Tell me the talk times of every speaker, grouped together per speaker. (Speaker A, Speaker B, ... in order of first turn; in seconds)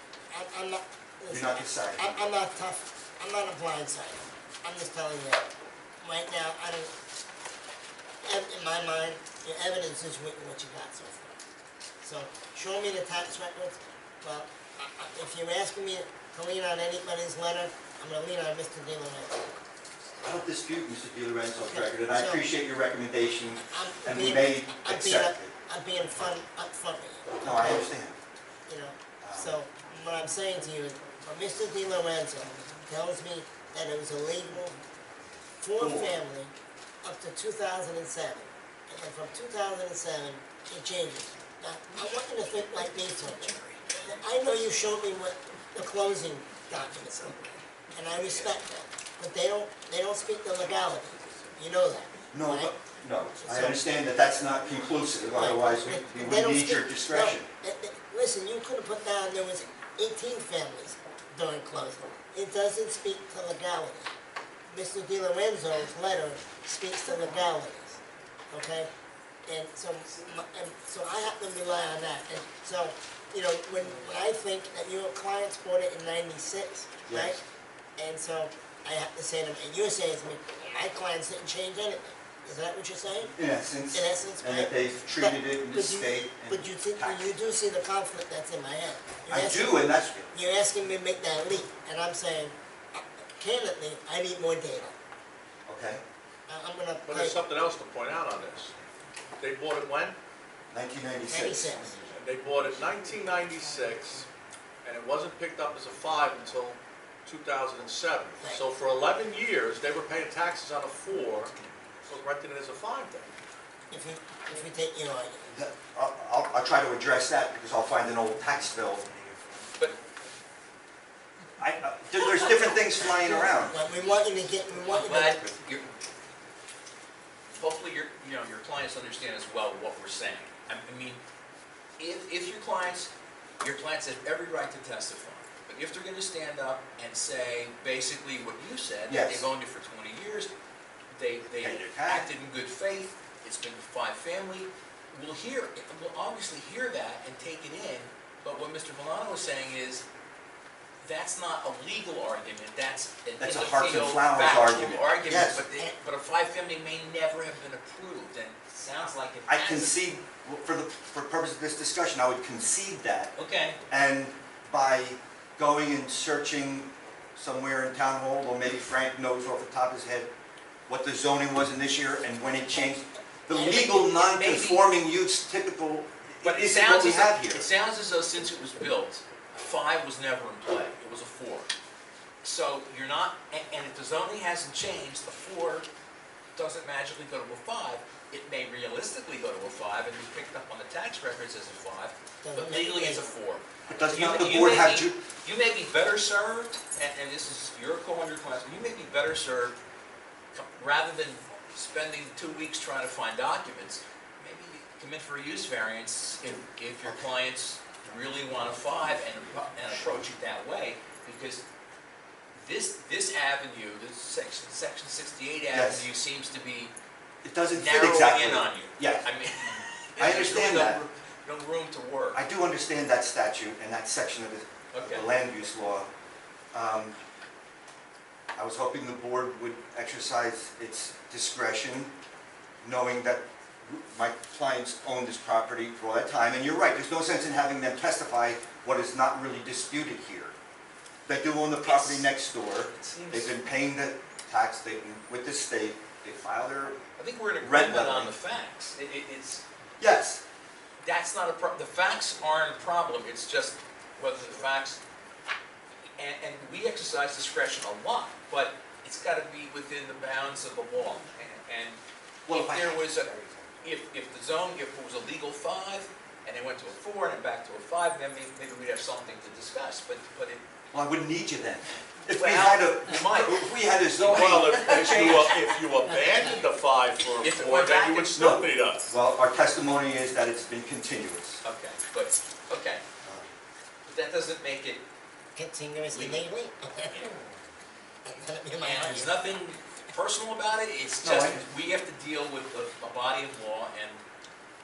Speaker A: 0.3-5.5, 6.0-6.9, 8.2-11.4, 12.0-19.5, 21.6-22.4, 23.7-27.8, 28.6-34.8, 35.6-36.5, 37.0-52.7, 53.4-53.9, 55.3-64.1, 64.7-68.9, 69.5-77.4, 78.0-83.3, 83.9-94.9, 96.5-97.4, 101.3-102.0, 113.9-115.5, 123.0-125.4, 173.5-174.3, 192.4-193.3, 285.5-287.3, 288.2-289.4
Speaker B: 1.3-2.1, 20.2-25.5, 27.4-28.2, 29.2-29.6, 35.8-36.2, 52.3-57.5, 77.0-77.4, 83.3-87.3, 89.3-90.3, 95.7-96.0, 100.7-102.0, 115.5-119.0, 121.6-123.8, 139.1-139.5, 141.6-142.3, 153.4-155.6, 159.5-163.3, 163.9-170.3, 170.9-177.6, 193.9-195.2, 209.9-210.2, 215.7-216.0, 217.4-219.3, 220.2-221.0, 222.3-226.1, 226.7-227.2, 228.6-232.1, 232.8-240.5, 241.3-247.0, 247.6-248.3, 250.0-250.4, 262.5-263.6, 270.9-275.5, 278.4-281.6, 291.2-291.6
Speaker C: 97.0-98.8, 99.4-100.2, 102.1-104.3, 104.8-111.5, 112.0-113.3, 274.2-279.1
Speaker D: 124.9-125.9, 127.5-131.2, 132.0-140.5, 141.1-150.0, 151.0-160.0, 163.3-163.8, 174.2-174.8, 176.4-181.7, 182.4-185.9, 186.5-199.8, 200.5-211.6, 212.6-216.9, 217.7-222.4, 224.9-225.3, 241.8-243.6, 247.2-249.6, 251.0-255.0, 256.2-270.6, 272.4-275.7, 277.4-278.4, 281.6-283.0, 284.1-285.0, 286.1-286.5, 287.0-287.4, 288.8-294.2